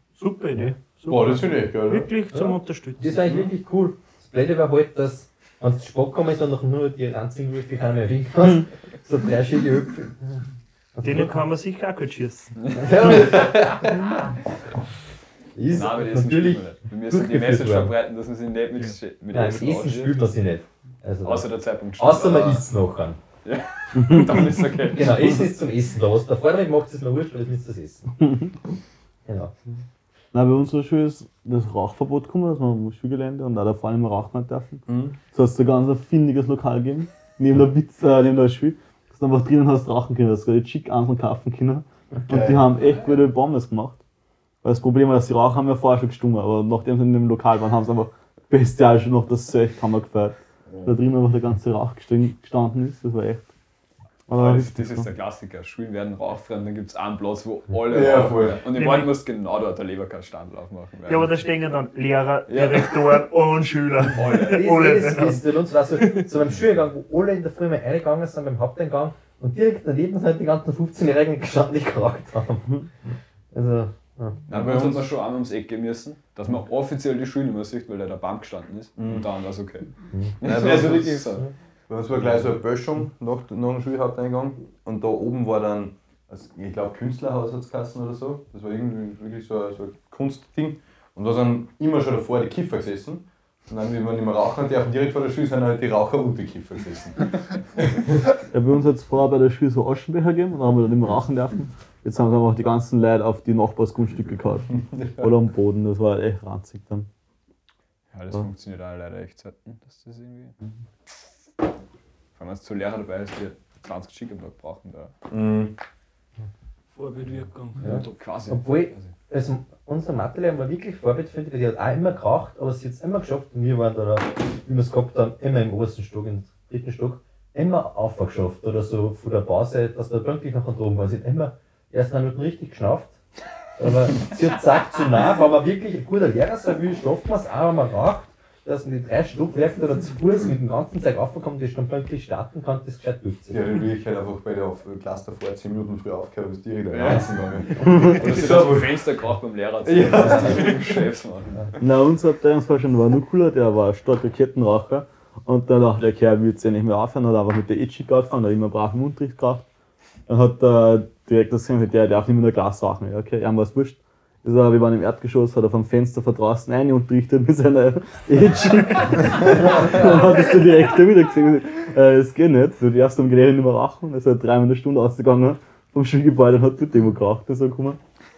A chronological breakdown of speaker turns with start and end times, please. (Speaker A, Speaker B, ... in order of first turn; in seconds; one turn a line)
Speaker A: 0.1-3.3
Speaker B: 1.1-2.1
Speaker C: 2.3-10.4
Speaker B: 3.3-3.5
Speaker C: 10.9-11.3
Speaker A: 11.0-12.5
Speaker D: 12.6-13.5
Speaker C: 12.7-13.9
Speaker C: 15.5-17.9
Speaker D: 15.7-20.2
Speaker C: 19.3-21.4
Speaker D: 21.2-22.6
Speaker C: 22.0-23.2
Speaker D: 23.4-25.4
Speaker C: 24.9-28.1
Speaker C: 29.2-29.5
Speaker E: 30.3-44.0
Speaker B: 34.9-35.2
Speaker B: 42.3-42.9
Speaker E: 44.6-53.5
Speaker E: 54.3-55.1
Speaker D: 54.3-61.3
Speaker B: 57.8-58.6
Speaker A: 58.7-59.1
Speaker A: 61.0-65.5
Speaker D: 62.5-63.2
Speaker D: 64.1-64.7
Speaker C: 64.4-74.4
Speaker A: 66.0-66.3
Speaker D: 74.5-79.9
Speaker B: 74.5-75.1
Speaker B: 79.0-79.3
Speaker C: 80.1-80.4
Speaker D: 80.4-81.5
Speaker B: 80.4-81.3
Speaker B: 81.9-98.0
Speaker E: 98.5-107.1
Speaker B: 104.9-105.3
Speaker D: 108.1-110.5
Speaker D: 112.3-115.1
Speaker B: 115.3-115.8
Speaker A: 116.9-118.2
Speaker C: 117.8-133.2
Speaker D: 117.8-119.1
Speaker C: 133.8-143.7
Speaker B: 143.5-149.0
Speaker D: 146.9-151.8
Speaker B: 149.8-151.0
Speaker E: 151.8-159.7
Speaker E: 160.3-178.0